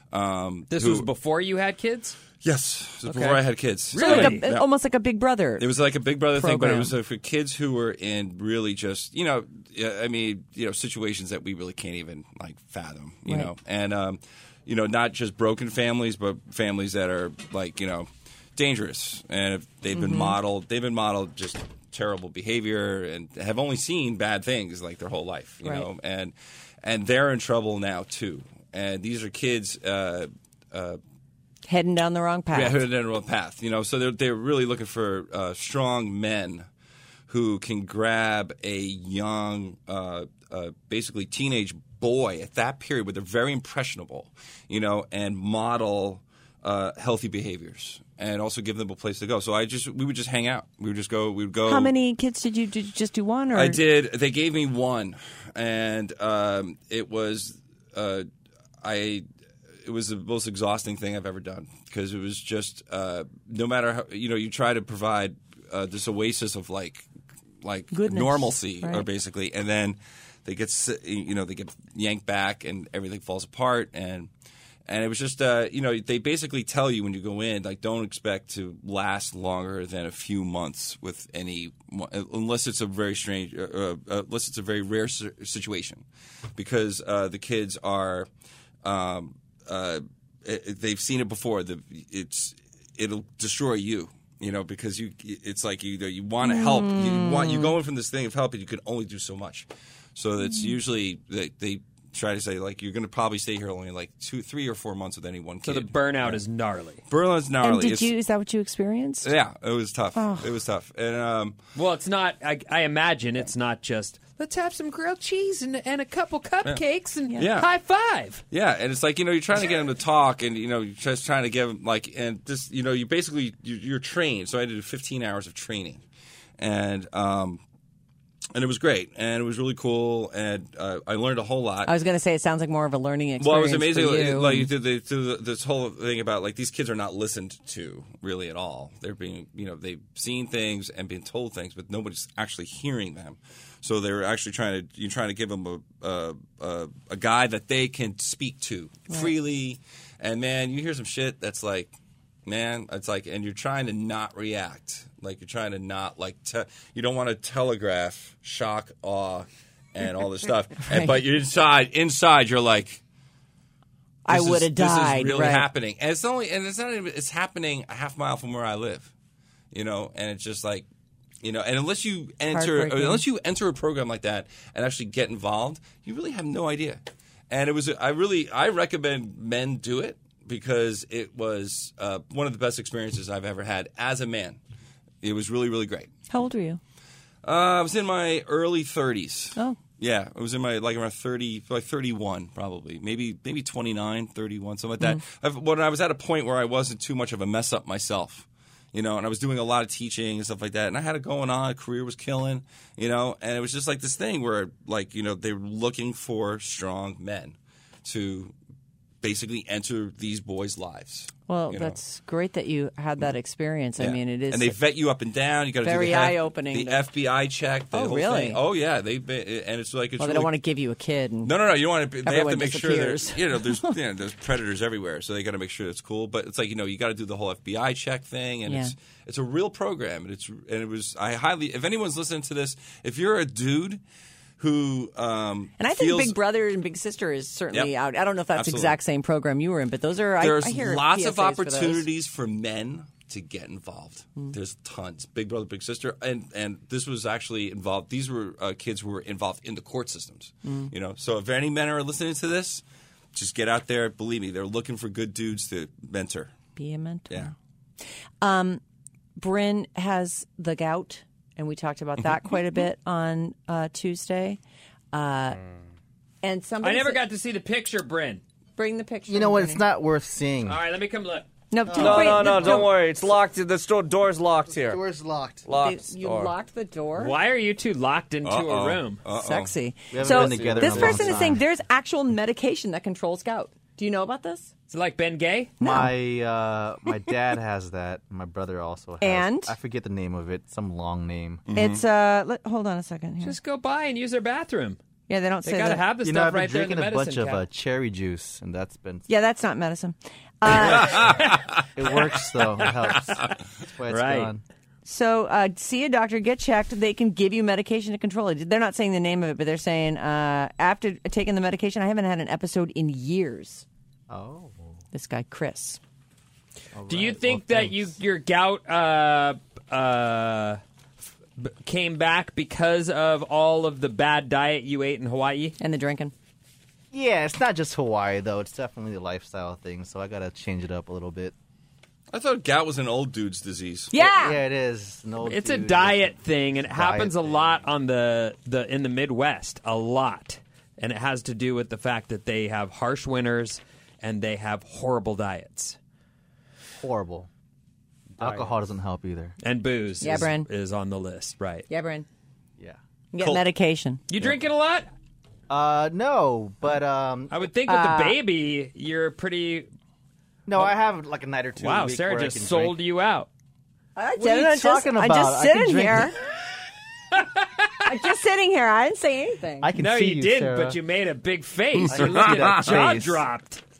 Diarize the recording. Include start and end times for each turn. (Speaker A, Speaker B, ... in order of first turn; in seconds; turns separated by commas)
Speaker A: 0.1-1.1, Speaker B: 0.7-2.2, Speaker A: 2.4-4.7, Speaker B: 3.0-4.5, Speaker C: 4.0-5.7, Speaker A: 5.6-31.0, Speaker C: 6.3-7.0, Speaker C: 19.9-20.4, Speaker C: 25.6-25.9, Speaker C: 31.7-32.8, Speaker A: 32.5-36.7, Speaker A: 37.3-51.9, Speaker C: 51.7-53.8, Speaker A: 53.5-58.3, Speaker A: 58.8-59.3, Speaker A: 59.8-67.1, Speaker A: 67.6-74.3, Speaker C: 67.9-69.1, Speaker A: 74.9-86.0, Speaker A: 86.6-88.3, Speaker A: 88.8-106.4, Speaker C: 96.4-97.8, Speaker B: 105.6-107.0, Speaker A: 107.1-108.1, Speaker C: 107.6-109.3, Speaker A: 109.2-111.6, Speaker C: 110.2-110.5, Speaker B: 111.8-118.4, Speaker A: 117.4-117.7, Speaker A: 118.5-126.0, Speaker A: 126.6-127.6, Speaker A: 128.5-131.9, Speaker C: 131.9-134.7, Speaker A: 133.4-151.9, Speaker A: 152.5-163.0, Speaker C: 160.8-161.2, Speaker C: 164.2-165.7, Speaker A: 164.3-169.1, Speaker A: 169.7-170.9, Speaker A: 171.4-184.6, Speaker C: 172.5-173.2, Speaker A: 185.2-186.1, Speaker C: 186.3-186.8, Speaker A: 187.4-208.5, Speaker A: 209.2-212.0, Speaker C: 211.5-214.8, Speaker A: 214.0-220.5, Speaker C: 215.8-217.0, Speaker C: 217.9-218.6, Speaker C: 220.2-221.5, Speaker A: 221.4-234.0, Speaker C: 222.2-223.9, Speaker C: 228.7-228.9, Speaker A: 234.6-236.4, Speaker C: 235.8-242.1, Speaker A: 238.6-239.0, Speaker A: 240.4-252.8, Speaker C: 250.7-250.9, Speaker A: 253.3-256.5, Speaker C: 256.8-257.6, Speaker C: 258.4-258.8, Speaker C: 259.4-264.6, Speaker C: 265.1-265.6, Speaker C: 266.4-267.2, Speaker B: 266.8-268.4, Speaker C: 268.8-269.8, Speaker D: 269.3-270.8, Speaker B: 270.6-271.5, Speaker C: 271.7-272.9, Speaker D: 271.9-272.8, Speaker E: 271.9-275.0, Speaker D: 274.8-275.7, Speaker E: 275.6-276.5, Speaker C: 275.8-277.4, Speaker B: 277.2-279.2, Speaker A: 278.4-279.7, Speaker C: 279.4-284.7, Speaker D: 280.1-281.6, Speaker B: 284.9-285.7, Speaker D: 285.8-291.6, Speaker C: 285.8-286.1, Speaker C: 289.2-289.8, Speaker A: 291.7-292.0, Speaker C: 291.7-293.6, Speaker B: 293.4-295.0, Speaker C: 295.3-296.0, Speaker B: 295.6-297.6, Speaker D: 296.2-299.3, Speaker C: 299.3-301.3, Speaker A: 300.7-301.8, Speaker B: 301.3-301.6, Speaker D: 301.9-304.6, Speaker B: 302.7-303.2, Speaker B: 304.1-304.5, Speaker C: 305.1-313.9, Speaker D: 314.3-315.0, Speaker C: 315.1-316.0, Speaker D: 316.9-318.1, Speaker B: 317.1-320.8, Speaker B: 321.6-325.8, Speaker C: 325.8-326.3, Speaker D: 327.1-331.5, Speaker A: 332.3-334.1, Speaker C: 334.1-334.6, Speaker D: 334.2-337.8, Speaker B: 335.4-346.0, Speaker D: 347.0-347.5, Speaker D: 348.4-349.5, Speaker B: 349.6-351.9, Speaker C: 350.2-350.7, Speaker C: 351.9-352.3, Speaker C: 353.3-354.2, Speaker A: 353.4-353.6, Speaker B: 354.3-355.1, Speaker D: 355.7-357.6, Speaker B: 357.5-359.9, Speaker C: 357.9-358.4, Speaker D: 360.7-362.9, Speaker B: 361.8-363.5, Speaker C: 364.2-366.4, Speaker D: 364.4-366.3, Speaker B: 367.4-367.9, Speaker C: 368.0-369.9, Speaker D: 369.8-371.0, Speaker B: 370.0-373.8, Speaker A: 372.0-373.1, Speaker D: 372.1-373.4